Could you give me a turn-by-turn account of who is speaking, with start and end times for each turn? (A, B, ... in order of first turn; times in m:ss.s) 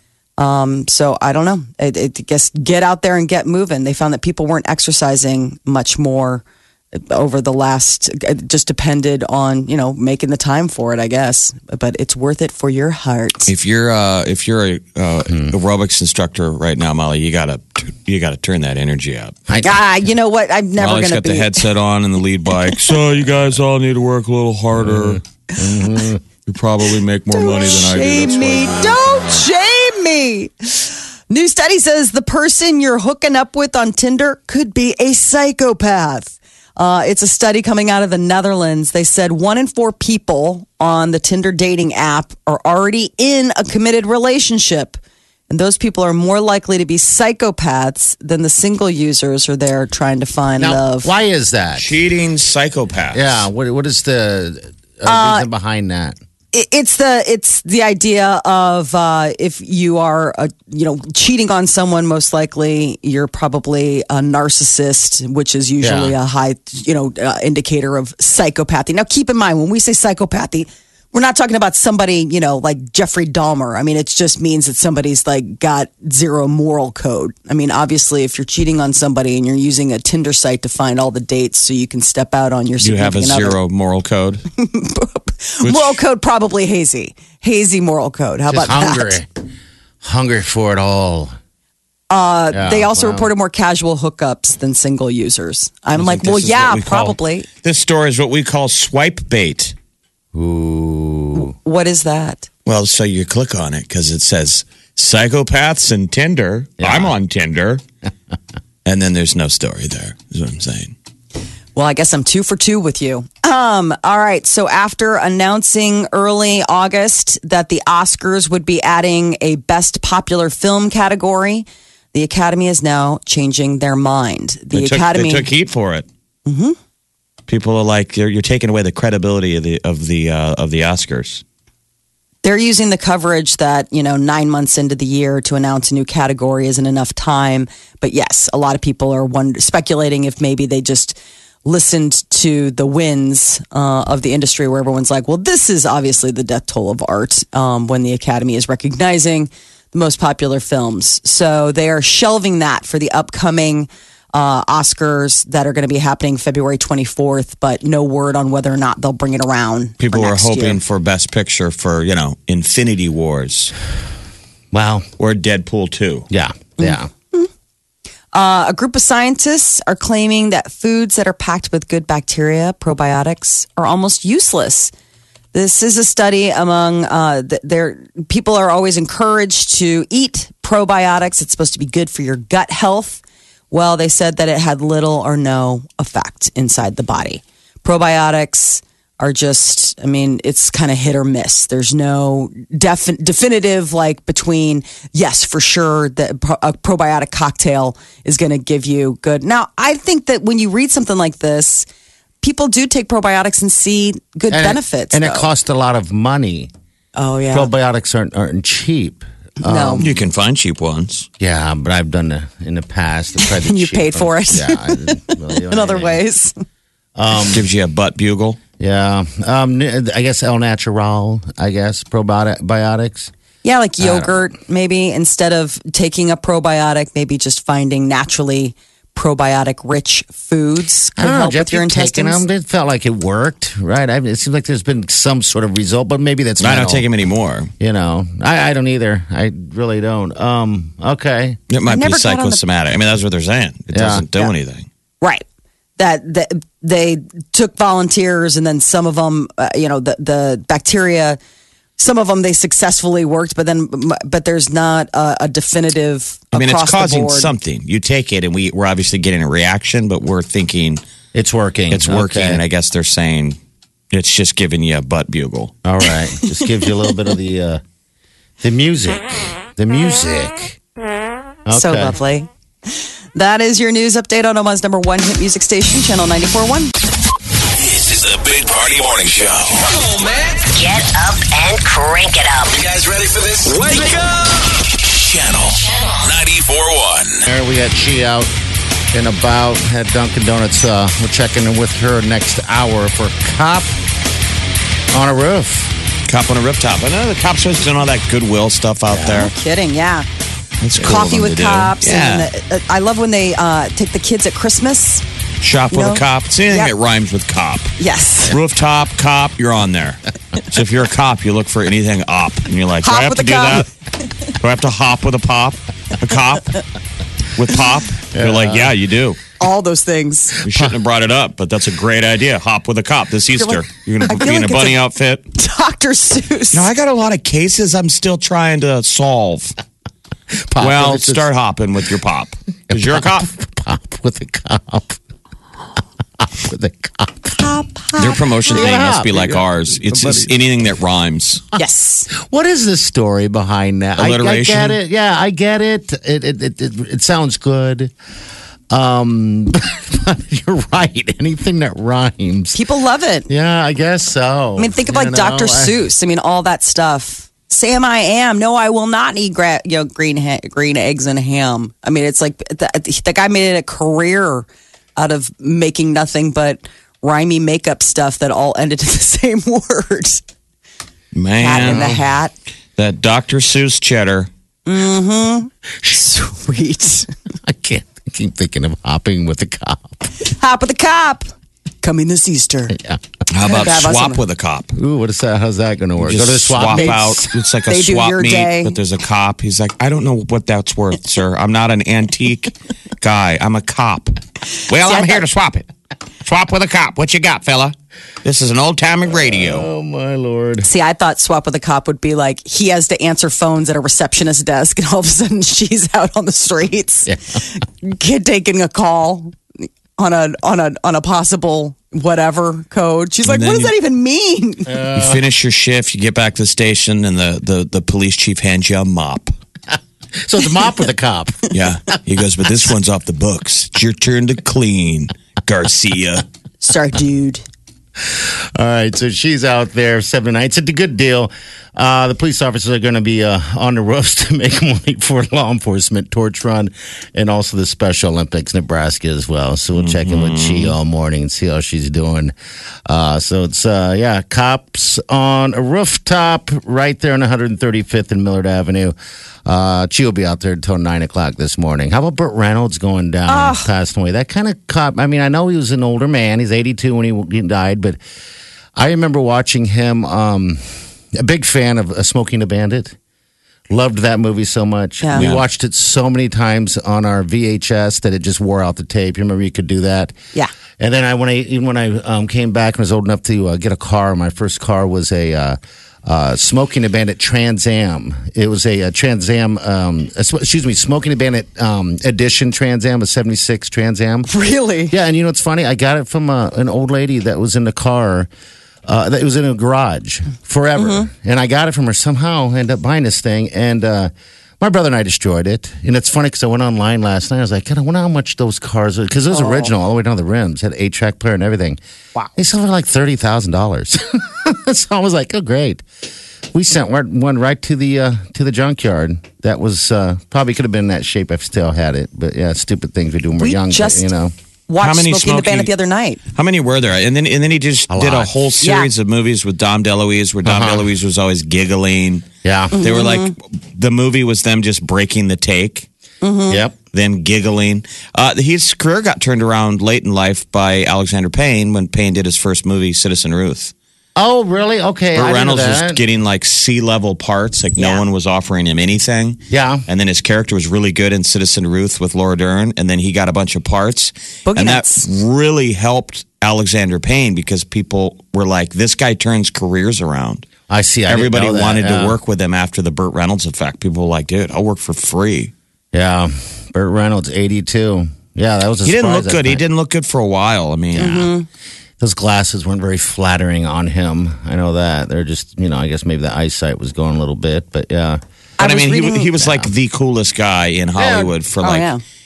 0:00.4-0:13.5 A
0:13.5-0:19.4 B
0:19.5-0:19.8 C
0:19.6-0:21.7 A
0:20.8-0:25.2 B
0:24.8-0:26.2 C
0:26.5-0:29.4 B
0:27.3-0:45.0 A
0:45.5-0:51.1 A
0:50.6-0:51.9 C
0:51.8-0:53.5 B
0:53.1-0:56.2 C
0:55.0-0:55.5 A
0:56.5-1:23.6 A
1:05.8-1:06.1 C
1:22.8-1:24.4 B
1:24.6-1:29.2 A
1:25.6-1:26.0 B
1:28.5-1:29.4 C
1:30.0-1:31.3 C
1:32.1-1:37.5 A
1:32.5-1:33.3 C
1:35.9-1:39.7 B
1:40.3-1:41.5 C
1:41.3-1:42.5 A
1:42.6-1:47.8 B
1:46.8-1:47.1 C
1:48.8-1:50.9 B
1:51.8-2:05.5 A
2:04.7-2:06.1 B
2:06.5-2:06.8 A
2:07.5-2:11.4 B
2:12.4-2:40.8 A
2:40.0-2:43.7 B
2:44.7-2:45.1 C
2:45.2-2:46.3 B
2:46.3-2:47.1 C
2:46.8-2:47.5 A
2:48.3-2:54.9 A
2:55.5-3:21.9 A
3:22.4-3:25.5 A
3:24.5-3:26.7 C
3:27.1-3:27.7 A
3:27.5-3:30.2 C
3:29.6-3:30.1 A
3:30.0-3:31.3 B
3:31.4-3:36.2 C
3:33.4-3:36.6 A
3:37.1-3:37.7 C
3:37.5-3:38.6 B
3:38.8-3:43.3 C
3:43.6-3:52.4 A
3:44.0-3:44.4 C
3:51.2-3:57.0 C
3:56.6-3:57.7 B
3:57.8-4:01.6 C
4:01.7-4:04.9 B
4:01.9-4:02.6 A
4:03.9-4:04.2 C
4:06.0-4:11.4 A
4:12.0-4:17.5 A
4:16.5-4:21.0 B
4:21.3-4:22.6 C
4:21.9-4:23.6 B
4:24.1-4:25.7 B
4:25.8-4:27.8 C
4:28.6-4:30.8 C
4:31.6-4:32.2 C
4:31.7-4:32.5 A
4:33.4-4:36.9 A
4:37.7-4:40.5 D
4:40.7-4:42.8 E
4:42.8-4:47.4 D
4:47.4-4:48.5 C
4:49.1-4:53.9 C
4:55.1-4:55.9 C
4:56.3-4:59.5 B
4:59.1-4:59.5 C
4:59.2-5:00.2 A
5:00.8-5:02.5 B
5:01.0-5:05.2 A
5:05.6-5:07.9 B
5:05.9-5:06.9 A
5:08.0-5:08.6 A
5:08.5-5:13.9 B
5:13.0-5:13.9 A
5:14.6-5:16.8 B
5:17.5-5:19.4 B
5:18.3-5:18.9 C
5:19.6-5:20.6 A
5:20.6-5:25.4 B
5:23.6-5:25.0 A
5:25.5-5:26.9 A
5:26.7-5:29.8 B
5:30.7-5:31.5 C
5:30.8-5:33.5 B
5:32.9-5:35.2 C
5:36.4-5:37.7 C
5:37.6-5:38.4 A
5:38.2-5:41.6 B
5:38.7-5:40.6 C
5:41.8-5:42.3 A
5:42.3-5:48.1 C
5:44.2-5:45.0 B
5:48.9-5:52.8 C
5:52.7-5:53.5 A
5:53.5-5:56.0 C
5:54.8-6:10.4 A
6:11.3-6:12.1 B
6:11.6-6:12.5 A
6:11.8-6:12.2 C
6:13.0-6:14.5 B
6:14.9-6:17.3 A
6:17.6-6:20.3 C
6:20.4-6:21.5 A
6:22.0-6:23.0 A
6:23.5-6:25.0 B
6:23.6-6:24.4 A
6:24.9-6:27.5 C
6:26.2-6:35.9 B
6:26.9-6:27.2 A
6:27.9-6:29.0 A
6:35.0-6:35.4 A
6:36.4-6:39.9 B
6:39.2-6:40.9 C
6:40.8-6:49.6 A
6:47.3-6:47.6 C
6:50.2-6:55.0 A
6:53.4-6:53.9 B
6:54.9-6:55.4 C
6:55.1-6:59.5 B
7:00.4-7:01.7 C
7:01.7-7:06.4 B
7:06.8-7:07.6 A
7:08.2-7:22.5 C
7:20.0-7:21.0 B
7:23.0-7:29.2 C
7:29.7-7:38.2 C
7:33.5-7:33.9 A
7:39.0-7:43.2 C
7:43.9-7:50.3 C
7:45.2-7:45.5 A
7:45.4-7:45.6 B
7:51.0-8:04.5 C
8:04.5-8:05.2 A
8:05.1-8:08.5 C
8:09.0-8:22.0 C
8:11.0-8:11.3 A
8:19.5-8:19.9 A
8:22.5-8:26.0 C
8:26.7-8:34.5 C
8:33.6-8:34.3 A
8:34.9-8:36.4 A
8:35.0-8:35.9 B
8:36.5-8:46.1 B
8:38.1-8:38.5 C
8:38.8-8:39.1 A
8:40.6-8:41.1 C
8:42.6-8:43.0 C
8:42.9-8:43.5 A
8:46.4-8:46.8 A
8:46.7-8:47.0 C
8:47.1-8:53.9 B
8:54.4-8:56.2 C
8:55.3-9:10.7 B
8:58.0-8:58.2 A
8:59.7-9:00.0 C
9:04.7-9:05.3 A
9:10.9-9:12.4 C
9:11.3-9:15.7 B
9:16.1-9:19.8 C
9:19.0-9:21.5 B
9:21.2-9:21.7 A
9:22.2-9:28.4 C
9:28.8-9:29.6 A
9:28.8-9:32.1 B
9:29.6-9:29.9 C
9:31.2-9:31.5 C
9:31.8-9:32.2 A